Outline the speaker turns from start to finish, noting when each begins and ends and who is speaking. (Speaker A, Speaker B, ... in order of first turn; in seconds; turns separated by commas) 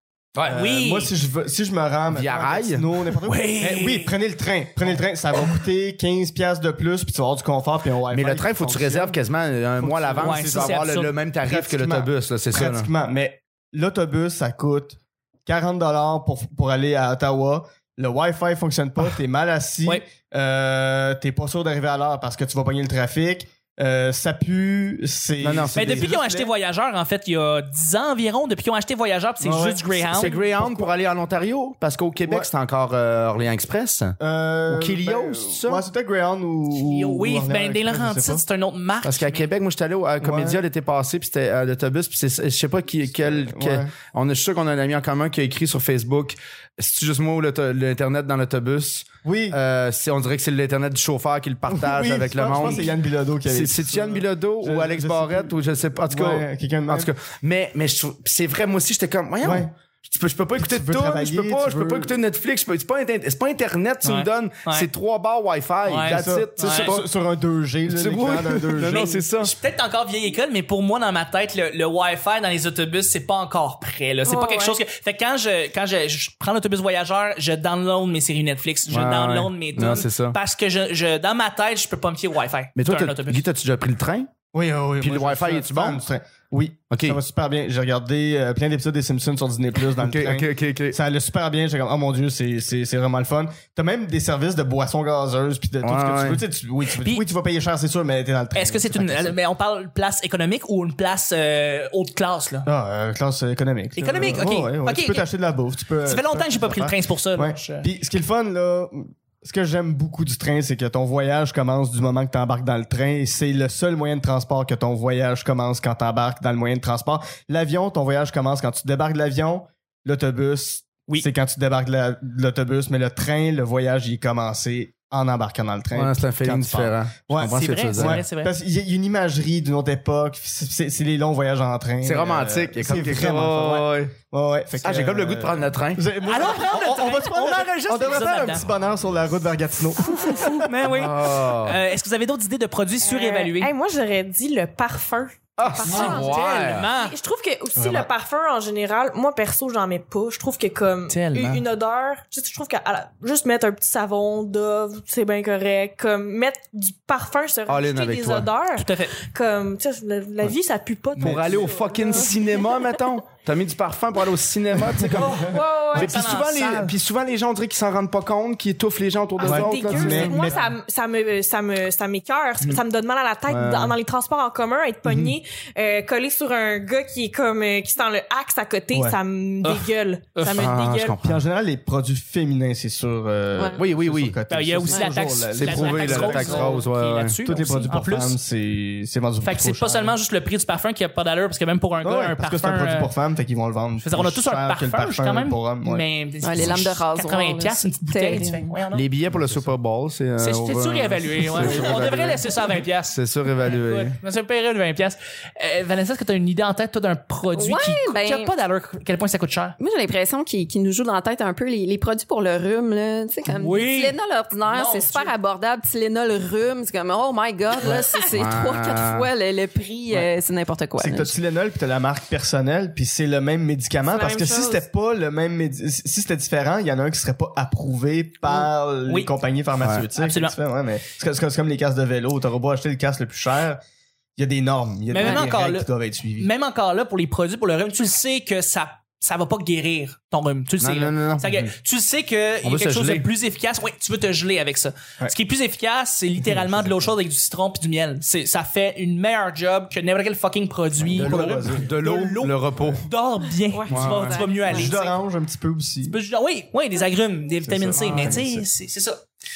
Speaker A: 0.4-1.1, Speaker B: 0.5-9.2, Speaker C: 2.1-2.8, Speaker A: 3.2-4.2, Speaker C: 8.1-12.9, Speaker B: 9.8-10.9, Speaker A: 10.2-11.1, Speaker B: 11.4-26.5, Speaker C: 25.4-26.1, Speaker A: 25.7-30.3, Speaker B: 29.4-30.9, Speaker C: 30.1-35.8, Speaker B: 34.2-38.4, Speaker A: 36.7-39.5, Speaker C: 39.0-52.9, Speaker B: 40.2-40.6, Speaker B: 43.3-43.9, Speaker B: 49.2-49.6, Speaker B: 51.7-57.1, Speaker C: 53.5-67.1, Speaker B: 59.4-59.7, Speaker B: 60.6-62.1, Speaker A: 64.0-64.9, Speaker A: 65.8-66.9, Speaker B: 66.1-69.2, Speaker C: 67.9-69.5, Speaker A: 68.8-83.4, Speaker D: 74.2-74.8, Speaker C: 78.9-80.4, Speaker C: 82.8-84.3, Speaker B: 84.5-99.4, Speaker C: 85.0-86.0, Speaker C: 86.9-87.2, Speaker C: 90.0-91.0, Speaker C: 95.8-96.4, Speaker A: 97.0-97.2, Speaker A: 98.5-102.7, Speaker B: 102.7-140.6, Speaker A: 103.9-105.3, Speaker A: 106.0-107.9, Speaker C: 125.9-128.2, Speaker A: 127.4-128.5, Speaker C: 132.0-134.1, Speaker C: 134.8-136.0, Speaker A: 136.2-138.7, Speaker A: 140.1-143.7, Speaker C: 140.9-141.8, Speaker D: 143.0-162.4, Speaker C: 145.6-146.9, Speaker A: 145.9-147.2, Speaker B: 147.7-148.1, Speaker A: 151.1-151.6, Speaker C: 157.7-158.5, Speaker A: 158.8-159.2, Speaker C: 161.2-170.4, Speaker A: 165.2-166.9, Speaker D: 165.4-166.2, Speaker D: 169.4-181.2, Speaker B: 169.4-170.6, Speaker A: 170.0-170.5, Speaker C: 173.4-173.9, Speaker B: 175.0-175.3, Speaker A: 179.6-180.7, Speaker C: 180.4-181.4, Speaker B: 181.2-186.7, Speaker C: 183.8-184.4, Speaker A: 184.5-188.4, Speaker C: 185.5-187.4, Speaker B: 187.4-190.2, Speaker A: 189.4-193.1, Speaker B: 192.0-196.0, Speaker A: 194.0-199.1, Speaker E: 196.4-198.6, Speaker C: 196.6-196.8, Speaker C: 198.9-204.2, Speaker B: 199.3-199.7, Speaker A: 200.4-209.8, Speaker E: 207.5-208.5, Speaker E: 209.8-221.3, Speaker A: 213.5-215.3, Speaker A: 217.8-218.3, Speaker C: 218.3-219.3, Speaker B: 221.0-233.8, Speaker D: 224.0-224.8, Speaker A: 229.1-229.3, Speaker A: 230.1-230.6, Speaker B: 234.4-236.5, Speaker A: 235.1-251.5, Speaker E: 235.2-235.4, Speaker C: 240.8-241.7, Speaker C: 242.6-243.3, Speaker B: 246.4-247.1, Speaker B: 251.0-251.9, Speaker C: 251.1-253.0, Speaker A: 252.0-255.2, Speaker E: 253.6-254.9, Speaker C: 253.9-254.4, Speaker B: 254.7-256.2, Speaker A: 256.1-259.2, Speaker B: 257.6-258.6, Speaker C: 257.9-258.4